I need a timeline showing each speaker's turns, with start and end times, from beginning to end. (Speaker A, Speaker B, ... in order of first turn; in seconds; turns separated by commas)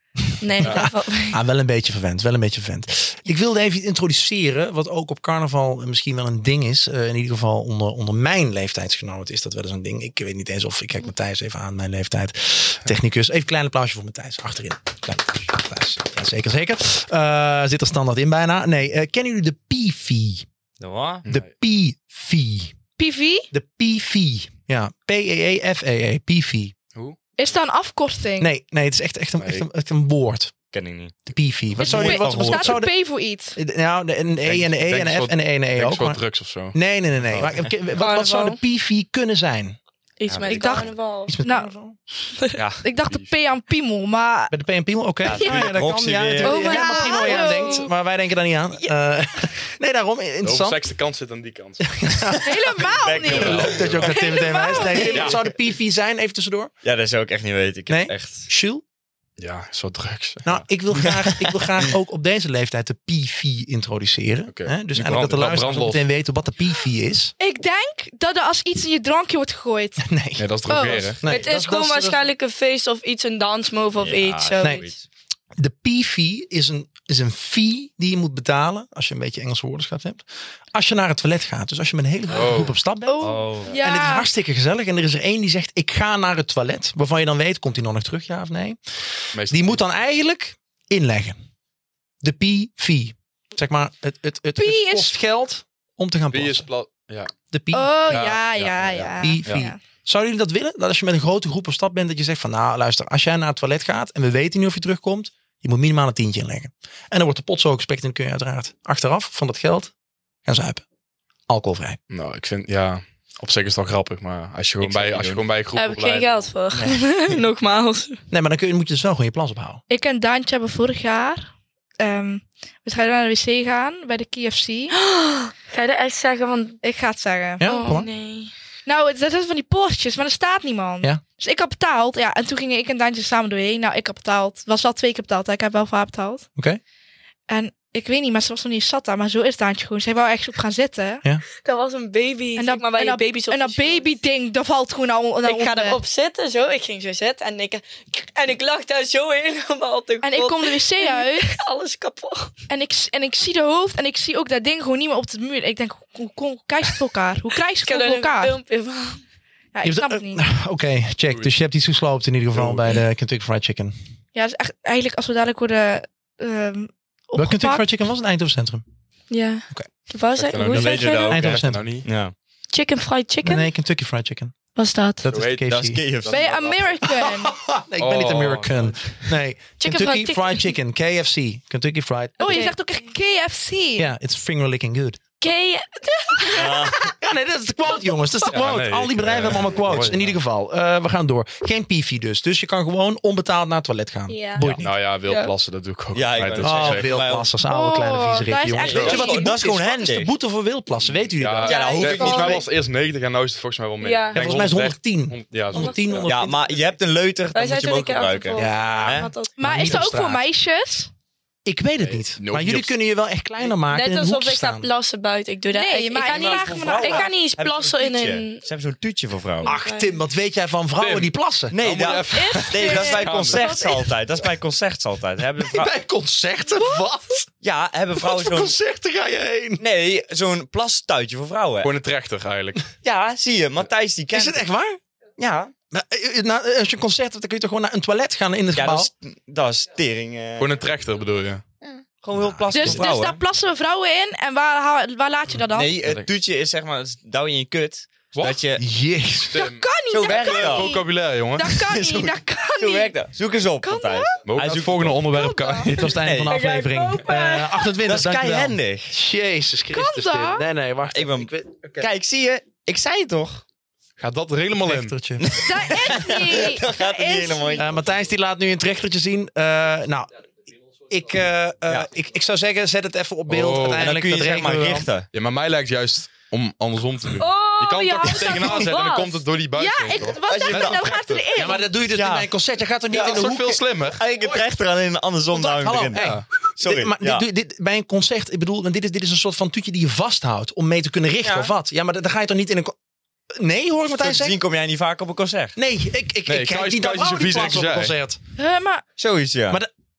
Speaker A: 0.4-1.4, Speaker B: 0.6-0.9, Speaker C: 0.6-20.5, Speaker D: 20.8-21.2, Speaker B: 21.2-21.5, Speaker C: 21.3-22.7, Speaker E: 23.0-23.5, Speaker C: 23.5-26.7, Speaker E: 27.4-28.5, Speaker C: 28.4-30.5, Speaker B: 29.4-29.6, Speaker D: 30.7-31.2, Speaker C: 31.3-32.9, Speaker D: 31.8-32.8, Speaker E: 31.8-33.6, Speaker C: 33.6-36.2, Speaker B: 34.4-36.8, Speaker C: 36.7-39.8, Speaker D: 37.3-37.7, Speaker A: 38.0-38.6, Speaker A: 40.2-41.4, Speaker D: 40.3-40.9, Speaker E: 40.5-41.7, Speaker C: 41.3-42.0, Speaker D: 42.6-42.8, Speaker E: 42.8-44.5, Speaker B: 43.0-43.4, Speaker C: 44.5-50.8, Speaker D: 45.2-46.7, Speaker E: 45.3-45.7, Speaker A: 46.4-47.9, Speaker E: 46.5-47.9, Speaker B: 50.4-52.4, Speaker C: 51.8-52.5, Speaker E: 52.4-55.4, Speaker D: 52.7-54.1, Speaker B: 53.3-54.4, Speaker C: 53.3-56.7, Speaker B: 54.9-55.4, Speaker D: 56.8-58.5, Speaker C: 57.9-58.8, Speaker B: 59.4-60.7, Speaker C: 60.5-67.3, Speaker D: 61.0-61.9, Speaker B: 64.5-66.0, Speaker E: 67.4-70.0, Speaker C: 70.0-70.5, Speaker B: 70.4-71.3, Speaker E: 70.7-71.1, Speaker C: 71.2-72.2, Speaker A: 71.2-74.9, Speaker D: 74.0-75.0, Speaker C: 75.6-83.2, Speaker B: 82.3-82.8, Speaker E: 83.1-84.3, Speaker D: 83.2-83.7, Speaker C: 83.8-91.4, Speaker B: 89.3-89.8, Speaker C: 92.2-96.7, Speaker E: 94.6-95.2, Speaker B: 96.3-97.3, Speaker C: 97.5-98.2, Speaker E: 97.7-99.8, Speaker B: 98.0-99.7, Speaker C: 99.2-109.9, Speaker C: 110.5-110.8, Speaker C: 111.5-112.0, Speaker B: 112.1-116.5, Speaker D: 114.8-115.4, Speaker A: 115.8-118.2, Speaker D: 116.7-117.0, Speaker C: 118.3-119.8, Speaker E: 119.9-124.9, Speaker A: 124.9-126.8, Speaker E: 126.8-127.9, Speaker C: 127.6-128.1, Speaker A: 127.6-128.5, Speaker E: 128.9-136.5, Speaker E: 137.5-141.2, Speaker A: 141.6-144.1, Speaker E: 142.6-146.0, Speaker A: 145.4-152.5, Speaker E: 150.2-151.5, Speaker E: 152.7-158.5, Speaker A: 157.8-159.2, Speaker E: 159.7-160.4, Speaker C: 159.8-163.9, Speaker B: 162.5-162.9, Speaker E: 164.3-167.8, Speaker C: 167.4-168.8, Speaker A: 169.3-171.4, Speaker B: 170.4-172.1, Speaker D: 170.6-172.3, Speaker C: 171.3-171.8, Speaker A: 172.7-173.7, Speaker C: 173.4-174.6, Speaker A: 174.8-175.3, Speaker C: 175.2-176.0, Speaker B: 175.3-177.2, Speaker D: 175.7-176.5, Speaker E: 176.3-177.5, Speaker C: 177.1-182.7, Speaker B: 178.0-179.2, Speaker A: 179.8-180.7, Speaker A: 182.4-183.1, Speaker E: 182.4-184.1, Speaker C: 184.0-185.2, Speaker A: 185.4-187.1, Speaker D: 186.5-187.1, Speaker C: 187.0-194.9, Speaker B: 188.5-190.4, Speaker A: 194.3-195.5, Speaker B: 194.6-197.2, Speaker D: 196.1-197.5, Speaker C: 196.6-201.9, Speaker E: 197.7-199.5, Speaker A: 198.8-199.5, Speaker D: 198.8-200.3, Speaker B: 198.9-199.3, Speaker B: 201.0-206.3, Speaker D: 201.7-202.6, Speaker A: 201.7-202.7, Speaker A: 204.0-204.7, Speaker C: 204.3-206.6, Speaker A: 205.7-206.1, Speaker D: 206.3-209.3, Speaker A: 207.5-210.0, Speaker C: 208.6-210.4, Speaker E: 209.6-211.1, Speaker C: 211.7-214.9, Speaker B: 212.0-212.9, Speaker A: 213.8-218.6, Speaker E: 215.7-217.3, Speaker D: 216.3-219.7, Speaker A: 219.6-220.1, Speaker C: 219.6-221.8, Speaker B: 221.0-223.7, Speaker D: 221.7-225.9, Speaker E: 222.3-223.7, Speaker A: 222.4-224.1, Speaker C: 225.7-227.5, Speaker D: 227.6-228.8, Speaker C: 228.2-229.8, Speaker D: 229.8-231.9, Speaker B: 231.8-232.8, Speaker D: 233.0-234.6, Speaker C: 234.3-235.0, Speaker D: 235.4-235.7, Speaker C: 235.9-239.1, Speaker D: 238.8-240.7, Speaker B: 240.6-241.6, Speaker D: 242.2-243.4, Speaker E: 242.7-245.9, Speaker D: 245.7-248.8, Speaker B: 248.3-248.7, Speaker C: 248.8-249.7, Speaker B: 249.5-251.9, Speaker E: 249.5-253.1, Speaker D: 250.1-250.9, Speaker D: 251.8-255.4, Speaker E: 253.8-254.4, Speaker B: 254.4-256.2, Speaker E: 255.4-255.9, Speaker C: 255.9-262.1, Speaker D: 256.1-256.6, Speaker A: 256.4-257.9, Speaker D: 258.0-259.1, Speaker E: 259.9-260.6, Speaker D: 261.1-263.6, Speaker B: 264.2-265.2, Speaker C: 264.8-265.9, Speaker D: 265.4-268.0, Speaker E: 265.6-267.9, Speaker C: 267.8-270.3, Speaker C: 271.1-275.1, Speaker B: 273.5-274.1, Speaker D: 274.0-275.3, Speaker B: 275.3-281.5, Speaker A: 277.4-279.4, Speaker E: 278.6-278.9, Speaker E: 279.8-281.9, Speaker D: 280.4-281.3, Speaker C: 281.5-284.6, Speaker D: 282.1-282.5, Speaker B: 283.1-284.2, Speaker D: 284.2-287.5, Speaker C: 285.5-292.9, Speaker B: 286.1-286.5, Speaker D: 291.4-291.7, Speaker C: 293.6-294.6, Speaker D: 294.1-295.8, Speaker C: 295.8-298.4, Speaker B: 296.5-298.2, Speaker E: 298.6-299.0, Speaker D: 299.2-299.8